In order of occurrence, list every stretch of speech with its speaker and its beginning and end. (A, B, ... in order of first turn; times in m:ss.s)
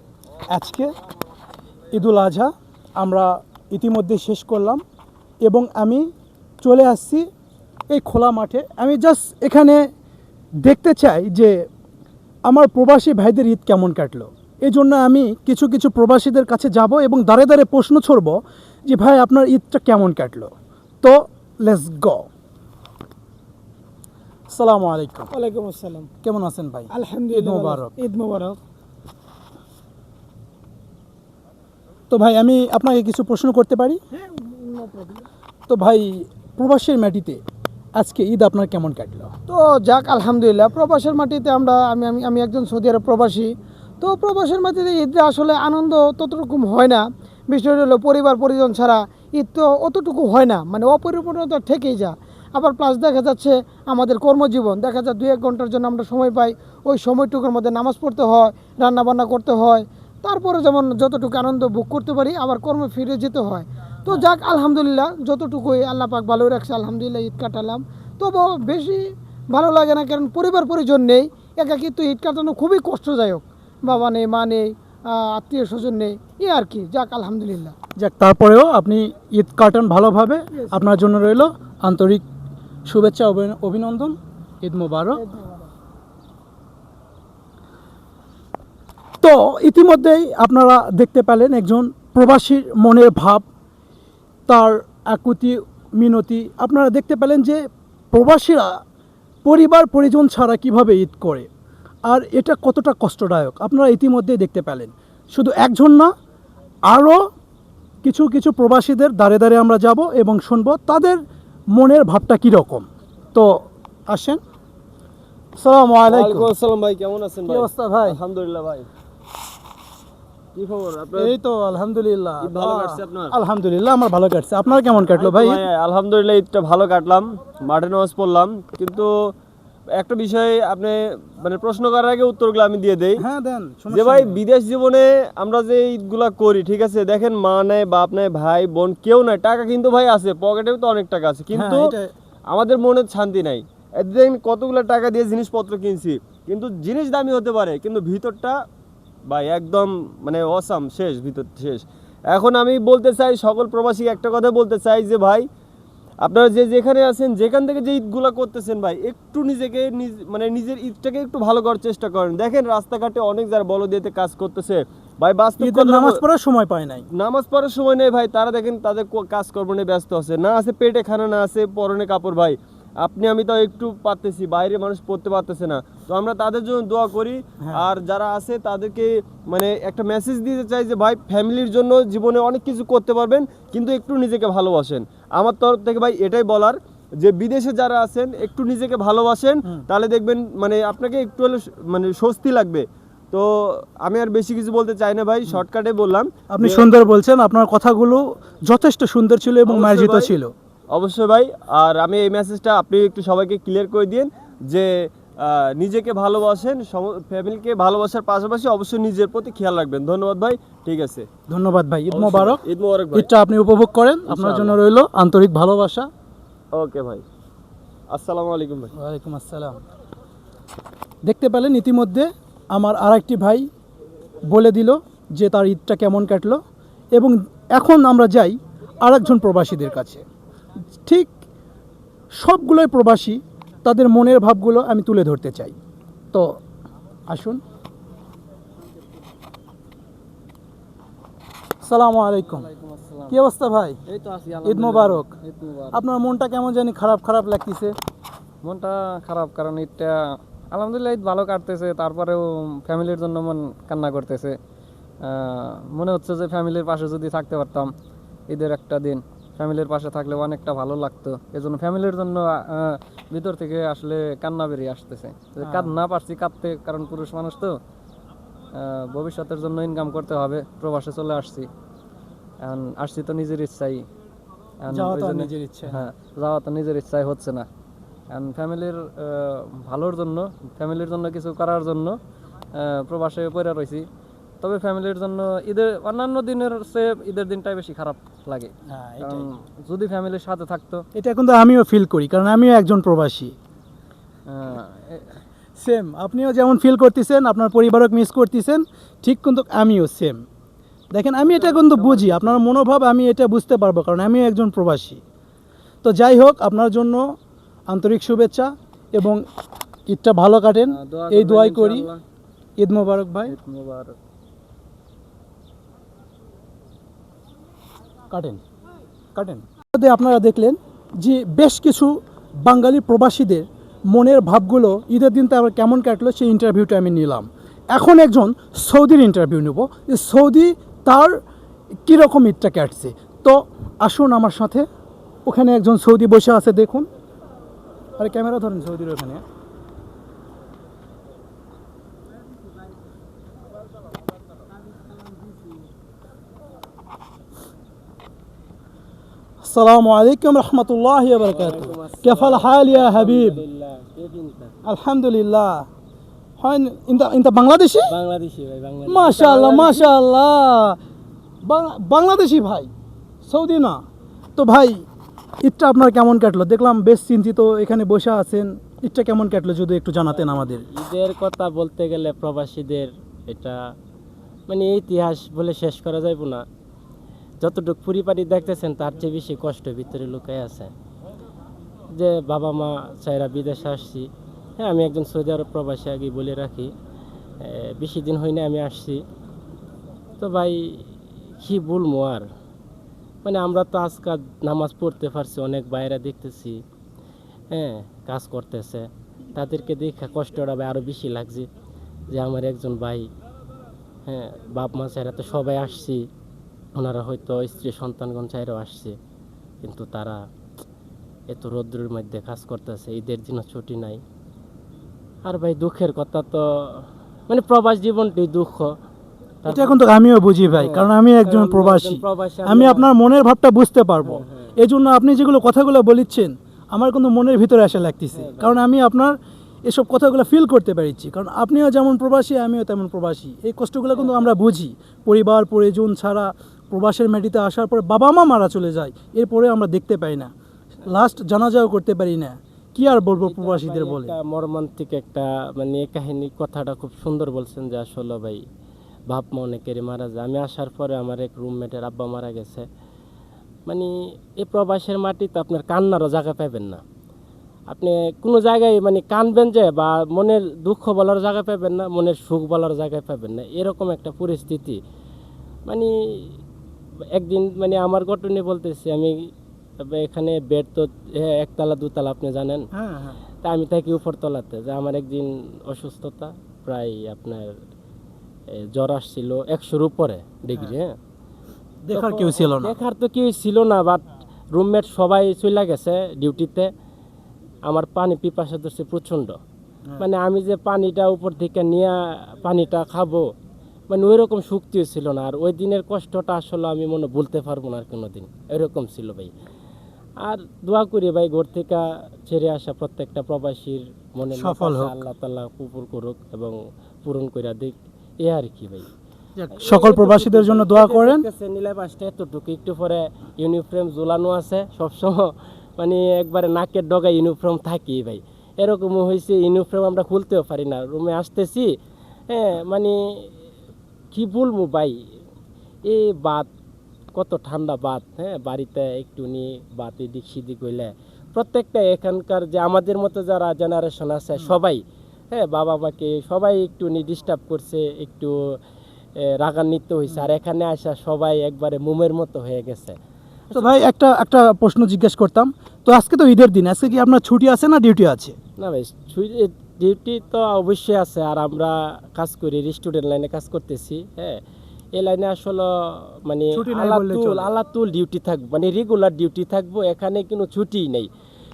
0:00.5-0:00.9 A
0:01.9-0:04.8 A
0:05.4-0:06.1 A
0:06.6-0:07.3 A
0:07.9-0:09.9 A
0:10.6-0:11.6 A
0:12.5-0:22.3 A
0:24.5-0:25.3 A
0:25.3-0:26.1 B
0:26.2-0:27.9 A
0:26.9-0:28.6 B
0:32.1-0:34.0 A
0:34.1-0:35.2 B
0:35.7-0:37.4 A
0:38.0-0:39.3 A
0:39.5-0:43.5 B
0:44.0-1:17.8 B
1:18.0-1:22.2 A
1:22.9-1:25.2 A
1:25.2-1:25.7 B
1:29.2-1:33.5 A
1:34.5-1:38.8 A
1:39.4-1:41.5 A
1:42.1-1:46.1 A
1:46.9-1:47.2 A
1:48.0-1:51.2 A
1:51.7-1:54.4 A
1:55.6-1:56.5 A
1:56.1-1:58.9 C
1:57.5-1:58.2 A
2:00.6-2:01.4 C
2:01.2-2:05.6 A
2:02.4-2:03.3 C
2:05.1-2:09.3 C
2:10.0-2:13.2 C
2:13.2-2:14.4 A
2:13.9-2:21.9 C
2:21.5-2:22.1 A
2:22.5-2:28.6 C
2:29.3-2:35.5 C
2:36.2-2:46.2 C
2:45.6-2:47.1 A
2:47.1-3:16.9 C
3:16.5-3:20.5 A
3:19.7-3:20.3 C
3:20.9-3:31.3 C
3:31.5-3:32.6 A
3:32.1-3:33.3 C
3:33.1-3:36.1 A
3:34.3-3:34.8 C
3:36.7-3:37.2 C
3:38.1-3:38.9 C
3:39.0-3:39.8 A
3:41.3-3:43.7 A
3:44.5-3:46.6 A
3:47.1-3:50.2 A
3:51.0-3:51.3 A
3:52.4-3:55.8 A
3:57.3-3:57.6 A
4:01.8-4:02.7 A
4:02.5-4:03.4 D
4:03.3-4:04.0 A
4:04.1-4:06.0 D
4:04.6-4:05.3 A
4:05.9-4:08.0 A
4:08.6-4:10.2 D
4:10.7-4:14.6 D
4:15.2-4:17.9 D
4:18.5-4:27.8 D
4:25.6-4:25.9 A
4:28.7-4:31.7 D
4:32.6-4:34.0 D
4:34.8-4:37.7 D
4:34.9-4:36.0 A
4:38.3-4:42.2 D
4:42.8-4:44.1 D
4:44.6-4:51.0 D
4:48.9-4:49.5 A
4:51.2-4:53.5 A
4:54.5-4:55.3 D
4:55.8-5:00.4 A
5:01.1-5:05.2 A
5:01.5-5:02.5 D
5:06.0-5:07.3 A
5:07.9-5:09.4 A
5:10.1-5:12.1 A
5:10.8-5:12.2 D
5:12.8-5:13.6 A
5:13.5-5:14.2 D
5:18.3-5:18.6 A
5:19.4-5:31.4 A
5:32.1-5:34.9 A
5:35.5-5:37.1 A
5:38.2-5:39.4 A
5:49.6-5:53.6 A
5:51.5-5:54.7 E
5:54.8-5:55.9 A
5:56.6-5:58.2 A
5:58.1-6:00.0 E
5:59.1-6:01.0 A
6:01.6-6:02.9 A
6:03.4-6:04.0 A
6:04.6-6:05.0 A
6:05.6-6:10.9 A
6:10.3-6:13.8 E
6:14.7-6:16.6 E
6:17.6-6:20.9 E
6:22.1-6:26.9 E
6:27.6-6:29.2 E
6:30.4-6:32.5 E
6:33.4-6:36.8 E
6:37.7-6:41.7 E
6:42.3-6:43.3 E
6:44.3-6:46.3 E
6:47.0-6:49.2 E
6:49.8-6:50.4 E
6:51.5-6:54.2 E
6:55.4-6:58.9 E
6:59.6-7:00.0 E
6:59.7-7:20.5 A
7:00.7-7:03.1 E
7:04.2-7:04.7 E
7:08.3-7:08.8 E
7:14.2-7:14.5 E
7:21.1-7:24.3 A
7:23.2-7:28.6 E
7:29.3-7:32.9 E
7:33.9-7:37.0 E
7:37.9-7:45.0 E
7:45.9-7:46.6 E
7:47.3-7:52.9 E
7:52.9-7:53.4 A
7:53.6-7:57.7 E
7:58.8-8:01.2 E
8:02.1-8:03.0 A
8:02.1-8:06.9 E
8:07.8-8:09.6 E
8:10.2-8:13.5 E
8:14.1-8:19.5 E
8:20.4-8:29.1 E
8:24.6-8:25.2 A
8:29.6-8:31.4 A
8:29.8-8:42.0 E
8:42.5-8:43.5 E
8:44.3-8:45.2 E
8:46.1-8:46.7 E
8:47.3-8:58.8 E
8:59.4-9:03.2 E
9:03.7-9:08.6 A
9:08.8-9:14.6 E
9:15.2-9:21.3 E
9:16.7-9:17.7 A